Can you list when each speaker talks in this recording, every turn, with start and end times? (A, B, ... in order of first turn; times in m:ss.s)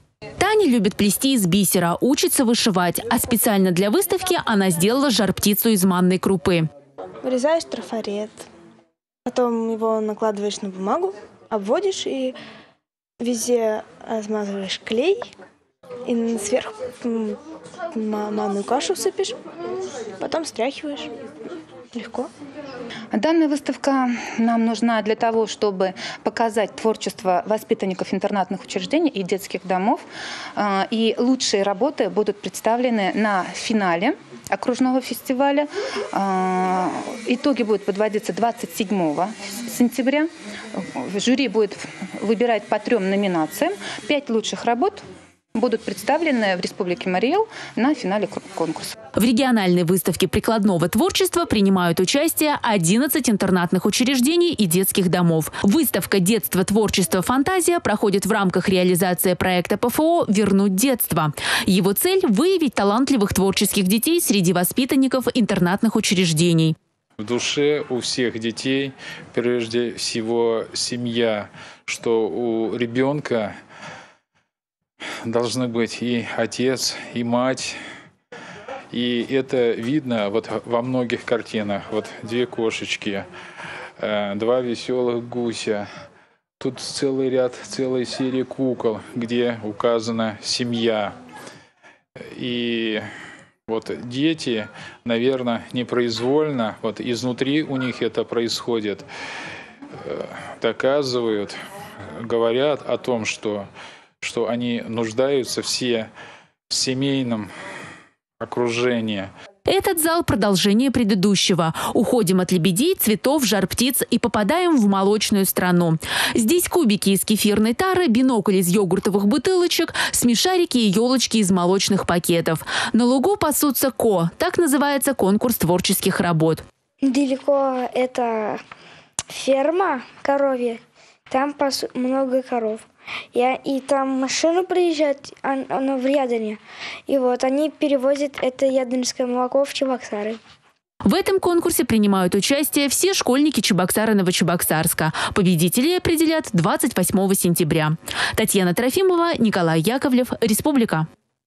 0:00.4-0:06.7 A
0:07.2-0:08.5 B
0:09.2-0:12.4 B
0:13.2-0:15.3 B
0:16.0-0:17.4 B
0:17.9-0:19.4 B
0:20.2-0:21.1 B
0:21.9-0:22.3 B
0:23.1-0:30.0 C
0:30.6-0:40.3 C
0:40.8-0:45.0 C
0:45.5-0:48.9 C
0:49.2-1:06.8 A
1:07.2-1:13.6 D
1:15.2-1:17.8 D
1:18.9-1:23.2 D
1:24.0-1:25.9 D
1:26.6-1:31.1 D
1:32.3-1:33.0 D
1:33.7-1:39.0 D
1:40.0-1:41.6 D
1:42.2-1:43.7 D
1:44.2-1:46.1 D
1:46.7-1:47.5 D
1:48.4-1:49.3 D
1:49.7-2:06.6 A
2:07.0-2:08.6 E
2:09.4-2:20.4 E
2:21.0-2:31.1 A